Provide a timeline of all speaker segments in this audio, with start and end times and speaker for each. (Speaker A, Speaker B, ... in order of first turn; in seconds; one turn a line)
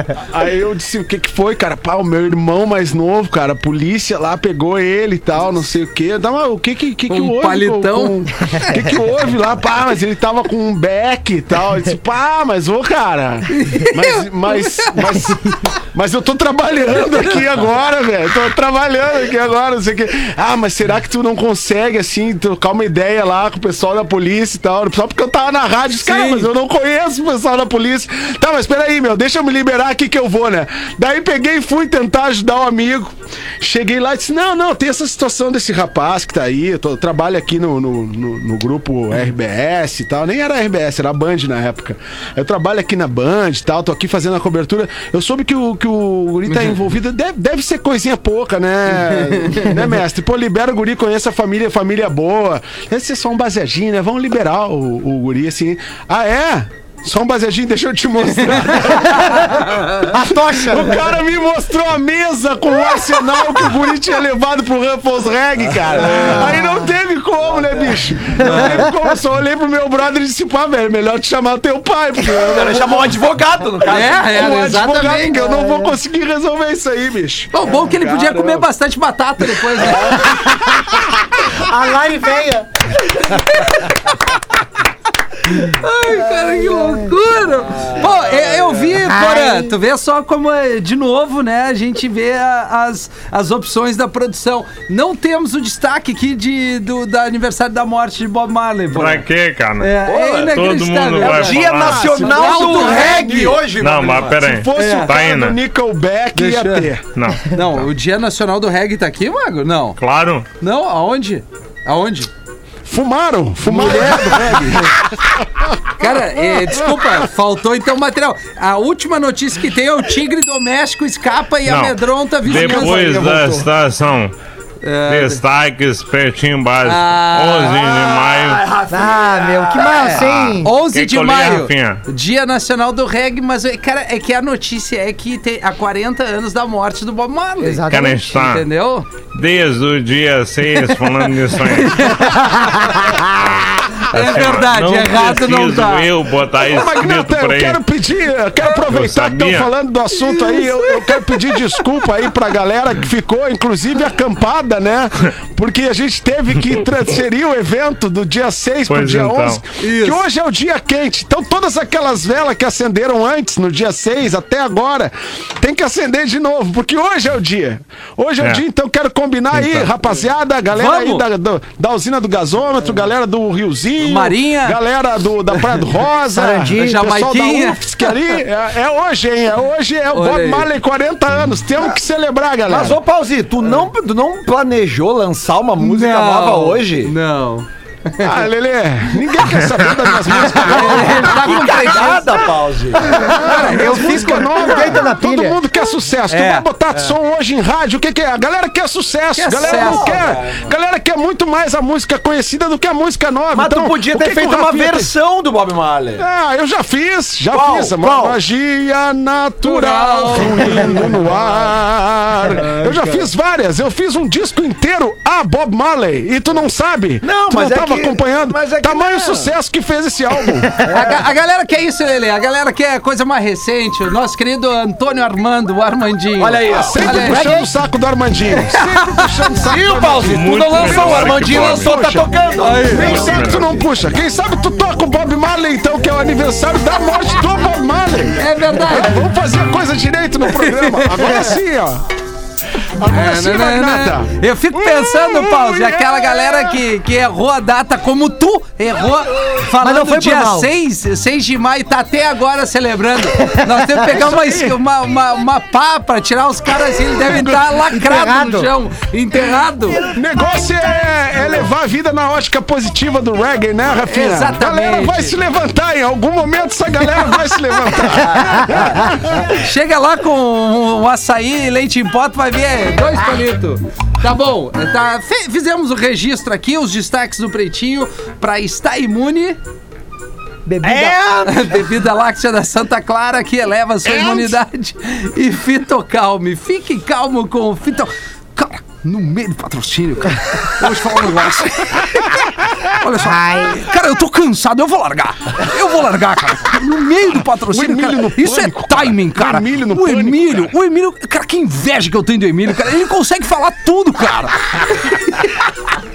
Speaker A: 0.1-73.2
Speaker B: 7.1-8.9
Speaker B: 13.5-15.5
Speaker B: 17.0-17.4
Speaker B: 26.0-26.5
Speaker B: 46.5-46.8
Speaker B: 48.9-49.8
Speaker B: 58.6-59.2
Speaker C: 59.2-61.2
Speaker D: 65.8-66.4
Speaker C: 66.0-66.9
Speaker C: 68.4-69.0
Speaker B: 68.4-68.8
Speaker D: 72.4-74.3
Speaker B: 73.8-75.4
Speaker A: 74.2-78.7
Speaker C: 75.3-76.0
Speaker B: 77.5-80.4
Speaker A: 79.8-81.1
Speaker C: 80.3-82.9
Speaker B: 83.1-84.3
Speaker B: 85.4-99.3
Speaker C: 86.3-87.1
Speaker D: 87.8-88.8
Speaker C: 89.0-89.8
Speaker E: 98.9-102.2
Speaker B: 99.8-103.5
Speaker D: 100.1-100.6
Speaker D: 101.2-104.5
Speaker A: 101.7-103.7
Speaker E: 103.7-105.6
Speaker A: 104.5-107.1
Speaker B: 104.8-105.1
Speaker B: 106.3-106.9
Speaker E: 107.1-107.9
Speaker B: 107.5-110.0
Speaker E: 110.0-110.5
Speaker B: 110.6-112.3
Speaker A: 112.9-115.7
Speaker B: 113.7-114.9
Speaker B: 116.0-123.3
Speaker A: 116.5-117.1
Speaker E: 121.7-124.3
Speaker A: 122.5-123.7
Speaker B: 124.8-125.4
Speaker E: 125.1-128.7
Speaker B: 126.8-128.1
Speaker D: 127.8-130.2
Speaker C: 128.9-130.7
Speaker B: 130.0-139.1
Speaker E: 130.0-132.1
Speaker C: 137.6-138.4
Speaker E: 137.9-138.7
Speaker E: 139.3-142.4
Speaker B: 141.7-143.1
Speaker C: 142.2-143.5
Speaker E: 143.6-147.8
Speaker B: 144.0-146.1
Speaker A: 146.6-183.0
Speaker E: 148.9-149.7
Speaker E: 158.9-159.6
Speaker B: 159.8-160.2
Speaker E: 169.6-169.9
Speaker B: 170.7-171.2
Speaker B: 174.0-174.8
Speaker B: 175.5-175.8
Speaker C: 176.3-177.0
Speaker B: 176.8-178.3
Speaker B: 180.1-180.7
Speaker D: 182.7-187.2
Speaker B: 185.8-188.4
Speaker A: 188.2-191.4
Speaker B: 190.4-192.4
Speaker D: 191.2-193.1
Speaker B: 193.0-195.0
Speaker C: 193.1-195.6
Speaker A: 193.3-205.1
Speaker B: 196.3-196.7
Speaker B: 199.3-200.2
Speaker D: 199.6-200.7
Speaker D: 203.5-206.2
Speaker A: 206.2-220.8
Speaker D: 207.5-208.4
Speaker B: 209.6-211.4
Speaker B: 212.5-213.3
Speaker D: 217.2-219.5
Speaker D: 220.8-221.2
Speaker B: 220.9-227.7
Speaker D: 226.4-227.4
Speaker A: 226.7-232.3
Speaker B: 228.5-229.3
Speaker D: 229.6-233.6
Speaker E: 230.2-232.2
Speaker B: 232.6-233.3
Speaker A: 232.8-242.0
Speaker E: 233.0-233.8
Speaker B: 238.4-239.3
Speaker B: 240.5-241.5
Speaker A: 243.0-246.8
Speaker B: 243.1-260.1
Speaker C: 249.8-250.7
Speaker C: 253.4-254.1
Speaker A: 254.1-254.8
Speaker A: 257.2-257.8
Speaker C: 257.9-258.7
Speaker A: 260.0-269.5
Speaker B: 264.1-265.4
Speaker C: 268.3-268.6
Speaker D: 268.6-269.1
Speaker B: 269.4-279.6
Speaker C: 280.7-281.2
Speaker D: 280.8-281.8
Speaker B: 281.4-305.5
Speaker A: 284.1-284.5
Speaker C: 293.2-293.9
Speaker A: 297.5-300.7